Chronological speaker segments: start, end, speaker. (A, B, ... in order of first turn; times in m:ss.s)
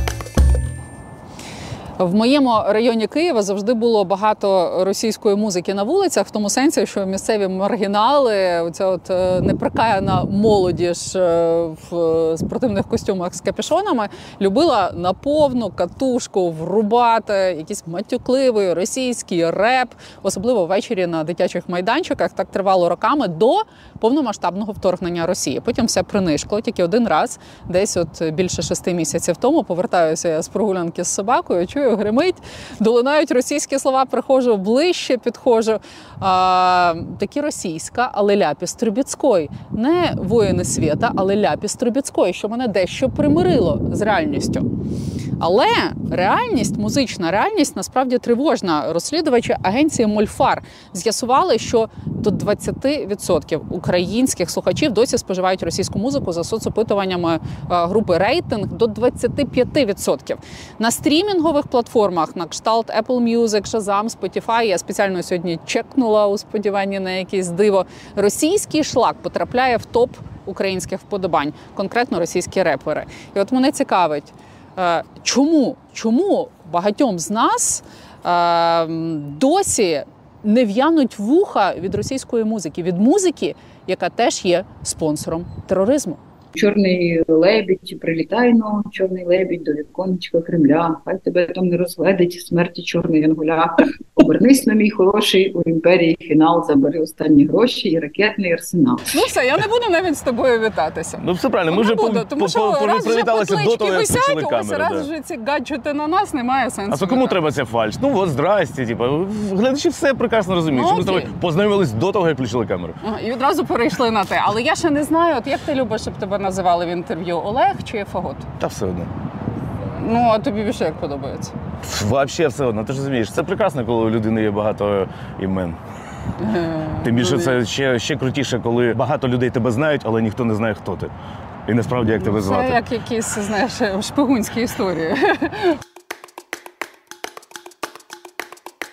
0:02.0-0:44.7 A
0:45.4-1:26.2 A
1:26.5-1:39.1 B
1:39.1-1:47.4 A
1:41.2-1:45.1 C
1:46.9-1:53.0 C
1:50.7-1:51.3 A
1:53.0-1:58.5 A
1:58.6-1:59.1 C
1:59.9-2:01.5 A
2:01.8-2:05.8 C
2:06.4-2:07.6 A
2:07.0-2:11.1 C
2:11.6-2:12.8 C
2:12.2-2:15.8 A